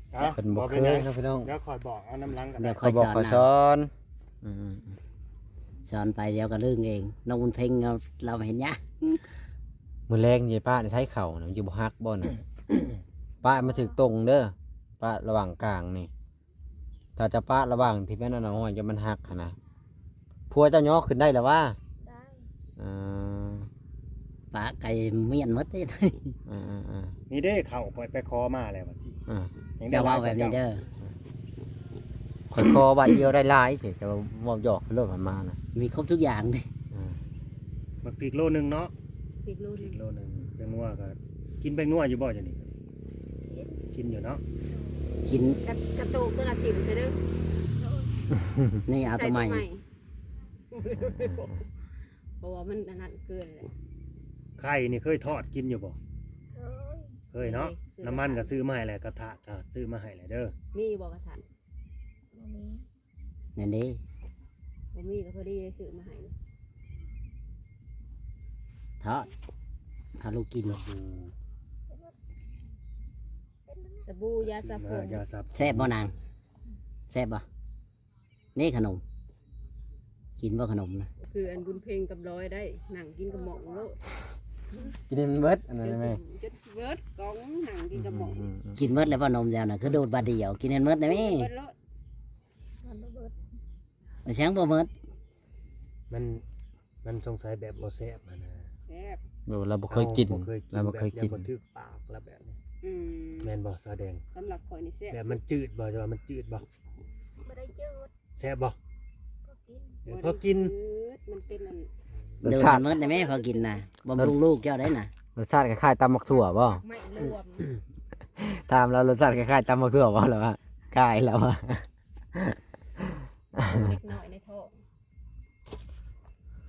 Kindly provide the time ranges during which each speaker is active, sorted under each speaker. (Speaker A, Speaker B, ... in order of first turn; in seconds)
Speaker A: 0.1-2.8, 27.3-29.2, 29.8-30.6, 38.0-38.9, 39.8-42.7, 43.9-44.4, 50.8-51.5, 54.6-56.0, 57.3-60.5, 70.7-71.3, 74.4-75.9, 96.1-96.4, 97.0-98.7, 99.9-102.6, 103.4-104.2, 105.1-106.7, 108.4-108.8, 110.0-110.7
Speaker B: 0.2-1.5, 2.8-3.9, 4.4-5.0, 10.1-12.3, 13.4-16.1, 17.1-19.6, 20.5-21.8, 22.8-23.7, 26.5-27.1, 32.5-35.6, 50.9-51.5, 85.1-86.2, 87.9-88.8, 99.5-101.5, 112.4-112.9, 115.3-116.8, 118.4-122.5, 123.6-123.9
Speaker C: 2.6-3.5, 5.8-9.2, 24.5-26.4, 29.9-30.8, 35.7-36.7, 45.2-45.6, 48.9-49.6, 63.5-64.0, 69.0-69.3, 70.2-70.8, 75.5-76.1, 77.1-77.4, 78.5-79.0, 80.4-81.1, 88.8-91.5, 94.2-94.9, 112.4-115.1
Speaker D: 13.4-14.0, 22.0-22.5, 43.4-43.8, 47.8-48.2, 56.5-57.2, 62.3-62.8, 71.9-72.1, 73.7-74.1, 83.3-83.9, 92.8-93.3, 107.4-108.1, 109.4-110.0
Speaker E: 39.4-40.0, 45.6-47.2, 49.0-49.8, 52.4-53.7, 57.4-58.6, 60.7-61.5, 64.9-66.3, 74.1-75.2, 81.2-84.0, 85.8-88.4, 91.1-91.8, 98.8-99.2, 102.8-103.6, 104.3-105.4, 110.1-111.9, 112.7-113.8, 116.6-117.7, 123.6-124.7